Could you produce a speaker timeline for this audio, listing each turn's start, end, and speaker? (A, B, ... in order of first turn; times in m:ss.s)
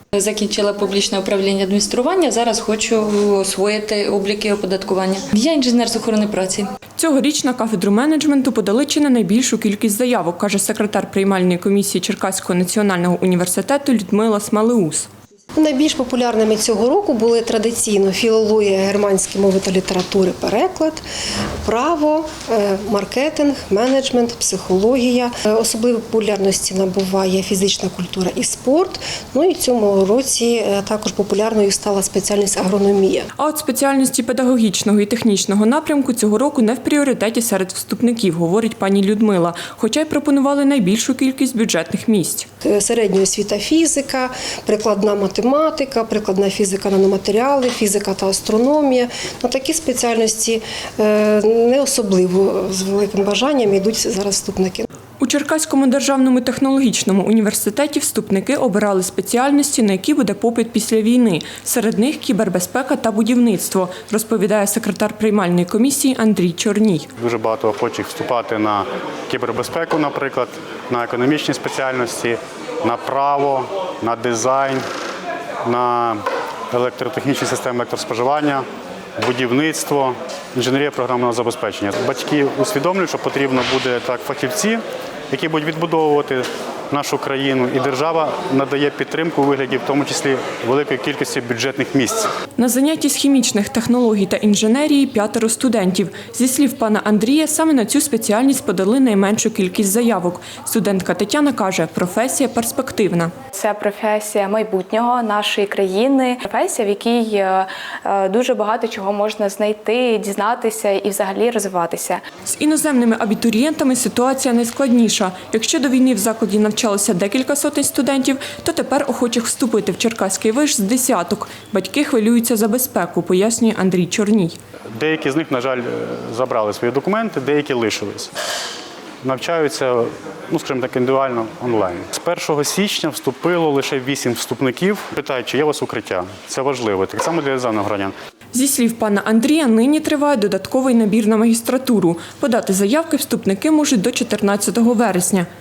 0:00.1-0:06.7 A
0:07.0-0:15.1 B
0:15.5-0:21.0 C
0:21.6-0:33.3 C
0:33.4-0:42.5 B
0:42.6-0:54.9 C
0:55.2-1:07.1 B
1:07.2-1:14.8 D
1:15.6-1:16.2 D
1:16.7-1:18.6 D
1:19.2-1:32.3 D
1:32.6-1:43.3 B
1:43.5-1:52.2 E
1:52.4-2:04.6 B
2:05.0-2:08.3 D
2:09.2-2:18.1 D
2:18.5-2:25.5 B